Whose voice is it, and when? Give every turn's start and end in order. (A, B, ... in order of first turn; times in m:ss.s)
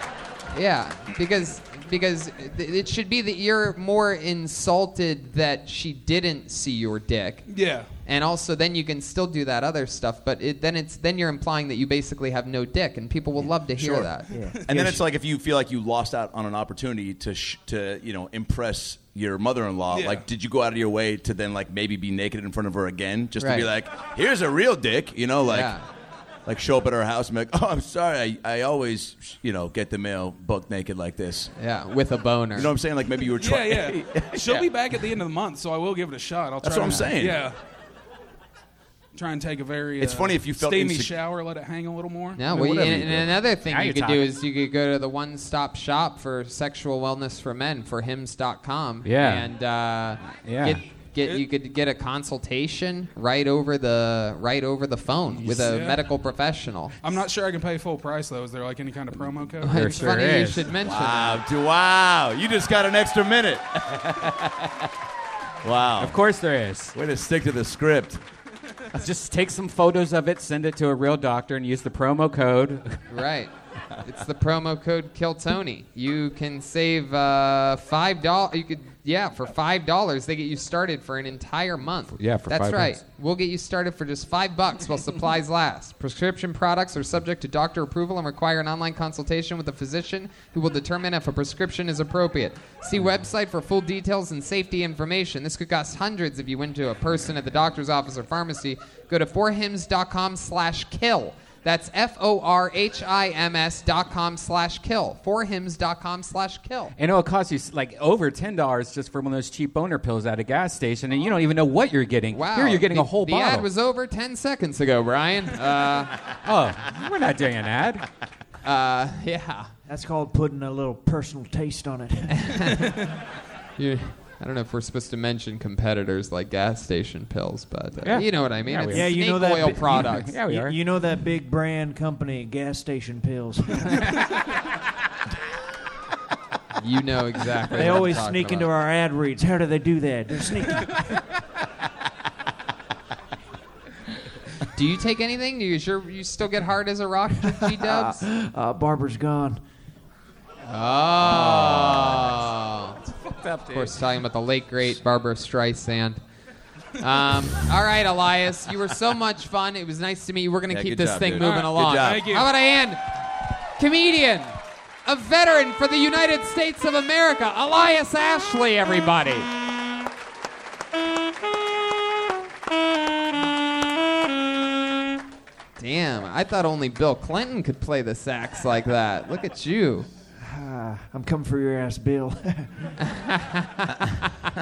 0:00.5-0:07.5 A
0:07.5-0:07.9 B
0:08.0-0:14.4 A
0:13.8-0:14.1 C
0:14.3-0:15.0 D
0:14.3-0:14.6 B
0:14.6-0:25.7 C
0:19.9-0:20.2 B
0:23.4-0:23.7 A
0:25.5-0:25.8 A
0:26.4-0:31.5 C
0:31.6-0:32.7 A
0:32.6-0:34.7 C
0:33.4-0:37.6 B
0:36.6-0:37.4 C
0:39.1-0:42.4 B
0:40.0-0:41.1 C
0:42.4-0:56.9 A
0:42.5-0:43.3 C
0:43.6-0:44.3 E
0:49.0-0:49.5 E
0:50.3-0:50.8 E
0:55.4-0:55.7 E
0:55.6-0:56.0 B
0:57.0-0:59.8 B
0:59.6-1:00.7 E
0:59.6-1:01.4 A
1:00.8-1:04.9 C
1:05.6-1:06.2 C
1:06.0-1:06.9 E
1:06.9-1:08.2 C
1:08.9-1:13.0 E
1:13.1-1:13.5 A
1:14.0-1:46.9 A
1:22.2-1:23.0 E
1:47.0-1:53.7 E
1:52.3-1:56.2 A
1:56.4-1:58.0 E
1:58.6-1:59.7 A
1:59.9-2:02.8 D
2:02.4-2:03.0 A
2:03.8-2:10.4 A
2:08.0-2:09.1 E
2:08.9-2:14.2 D
2:09.9-2:10.8 E
2:16.8-2:18.7 A
2:17.7-2:21.2 D
2:24.7-2:28.2 A
2:27.5-2:29.6 D
2:30.7-2:33.0 A
2:31.2-2:32.3 C
2:33.1-2:33.9 E
2:33.7-2:36.2 A
2:37.0-2:43.0 A
2:40.7-2:42.3 C
2:41.4-2:42.5 B
2:43.8-2:49.5 A
2:55.8-3:00.1 A
3:00.4-3:02.9 D
3:03.0-3:04.2 A